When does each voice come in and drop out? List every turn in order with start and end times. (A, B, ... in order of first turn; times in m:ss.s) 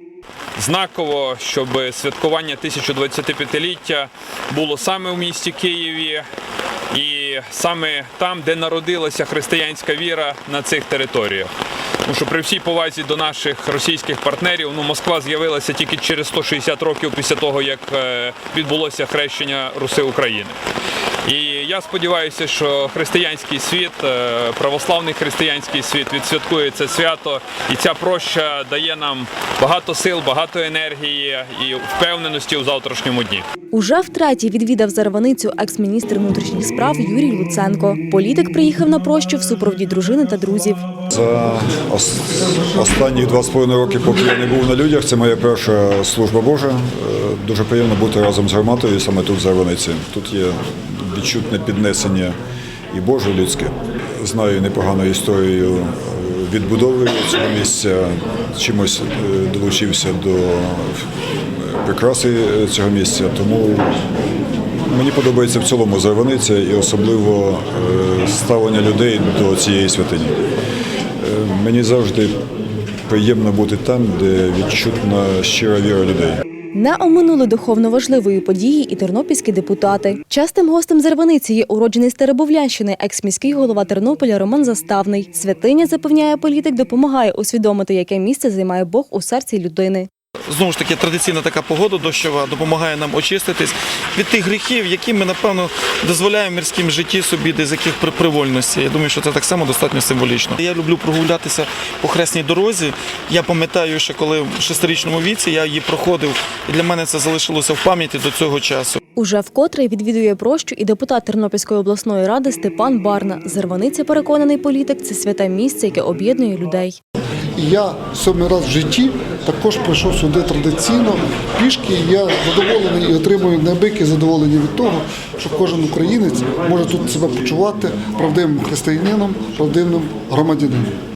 0:00.6-0:06.2 A
0:06.9-0:11.5 A
0:12.0-0:20.5 A
0:21.2-0:33.4 A
0:33.7-0:40.8 B
0:41.1-0:52.3 C
0:52.9-1:10.4 C
1:11.2-1:12.4 C
1:13.1-1:16.4 C
1:16.7-1:30.1 B
1:30.5-1:49.0 D
1:49.2-1:57.0 B
1:57.6-2:10.9 E